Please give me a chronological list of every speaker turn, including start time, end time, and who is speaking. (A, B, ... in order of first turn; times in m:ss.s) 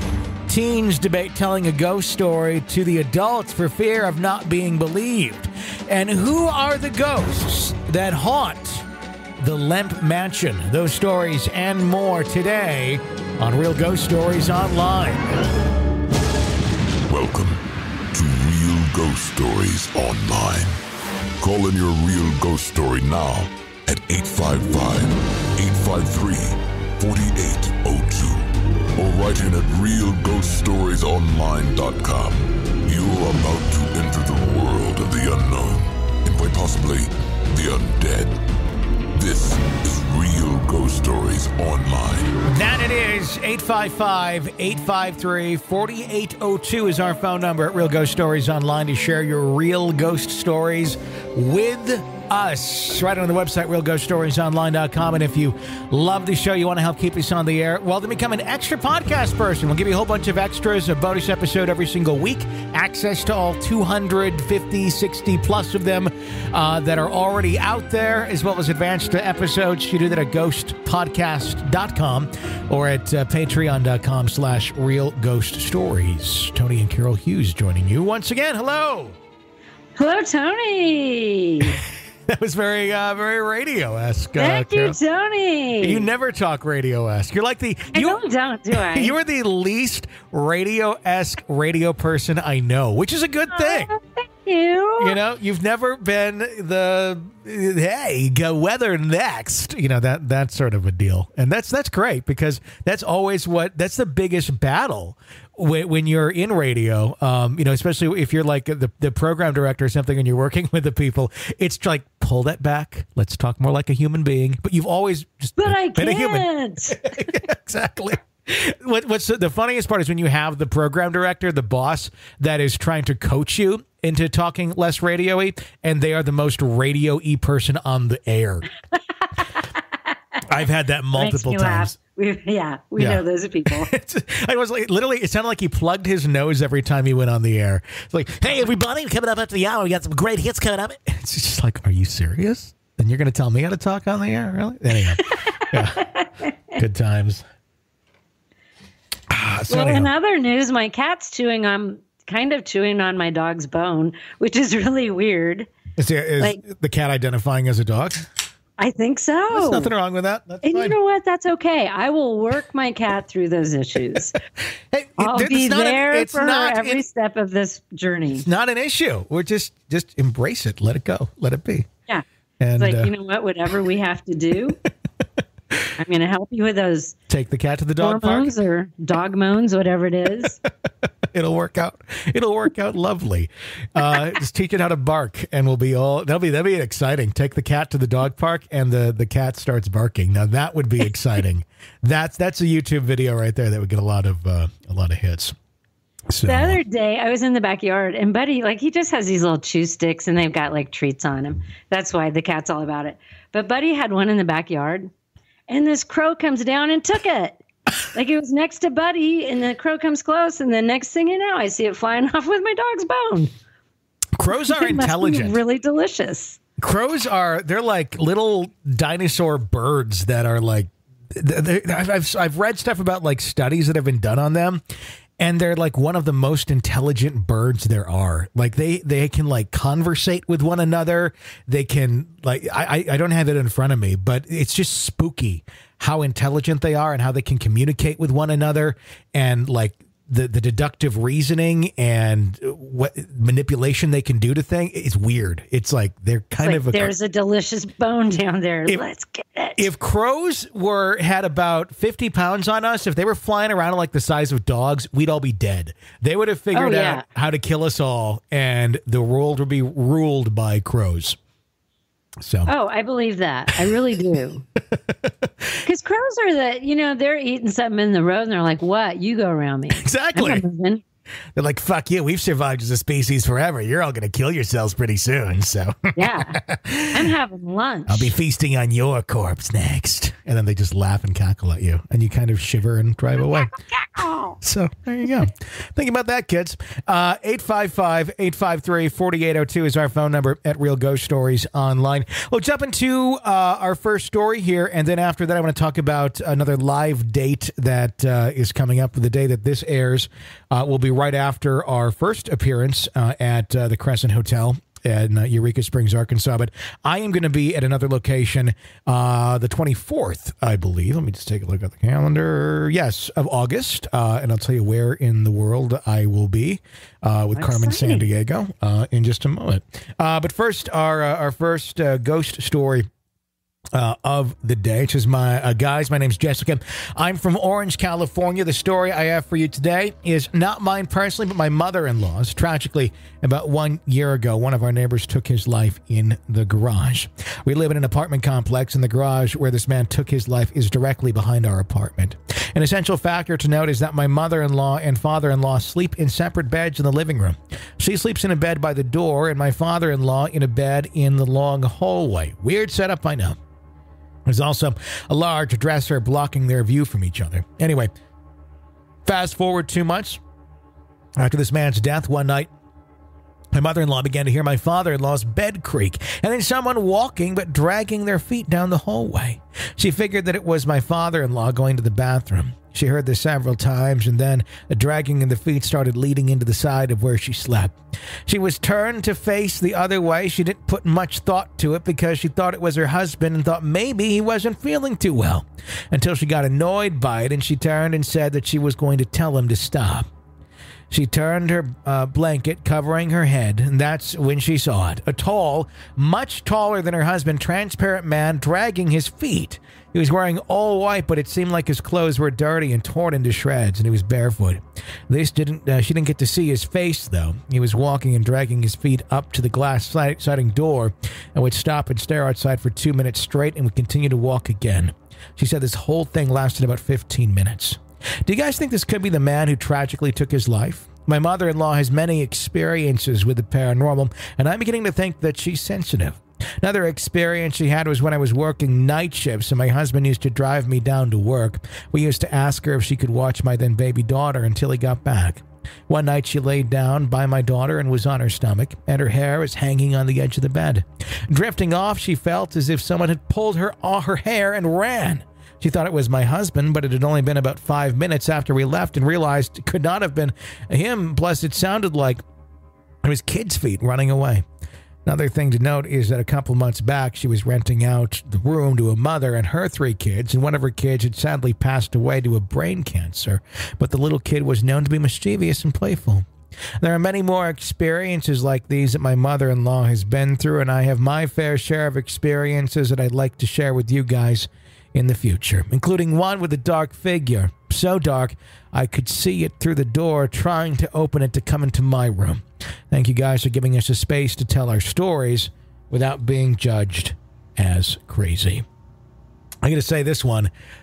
0:00.5-0:08.9 A
0:09.4-0:15.3 A
0:17.1-0:17.6 B
0:18.1-0:20.8 B
0:21.4-0:38.4 B
0:39.2-0:42.4 B
0:42.5-1:19.2 A
1:20.0-1:21.8 C
1:22.3-1:25.0 A
1:24.4-1:26.1 C
1:25.8-1:33.9 A
1:27.9-1:29.2 C
1:33.5-1:35.2 C
1:35.0-2:08.7 A
1:55.6-1:57.1 C
2:09.4-2:10.2 C
2:10.5-2:12.0 A
2:11.2-2:13.9 C
2:13.0-2:26.1 A
2:26.0-2:26.3 C
2:26.7-2:27.4 A
2:29.3-2:30.1 A
2:29.7-2:35.7 C
2:36.0-2:38.3 A
2:38.8-2:39.9 C
2:39.5-2:41.0 A
2:40.6-2:44.4 C
2:44.9-2:47.0 A
2:45.2-2:48.4 C
2:48.4-2:51.9 A
2:52.6-2:53.1 A
2:52.8-2:54.8 C
2:56.0-2:57.2 C
2:57.3-2:58.5 A
2:58.0-3:00.6 C
3:01.3-3:15.6 A
3:16.3-3:16.8 A
3:16.5-3:25.1 C
3:25.7-3:33.5 C
3:34.4-3:35.6 A
3:34.5-3:36.6 C
3:36.8-3:44.8 A
3:45.4-4:07.1 A
4:06.6-4:09.8 C
4:09.8-4:21.4 A
4:16.7-4:17.2 C
4:22.4-4:22.7 A
4:22.7-4:24.6 C
4:24.9-4:25.8 A
4:25.8-4:31.0 C
4:30.0-4:30.6 A
4:31.6-4:37.3 A
4:36.2-4:38.3 C
4:38.1-4:43.7 A
4:43.4-4:44.6 C
4:44.6-5:23.1 A
5:17.6-5:18.3 C
5:23.9-5:53.6 A
5:54.5-5:58.1 A
5:59.3-6:00.4 A
6:01.4-6:02.7 A
6:03.7-6:30.3 A
6:31.1-7:32.4 A
7:33.2-7:34.6 A
7:35.3-7:46.5 A
7:47.0-8:08.8 A
8:09.8-8:10.7 A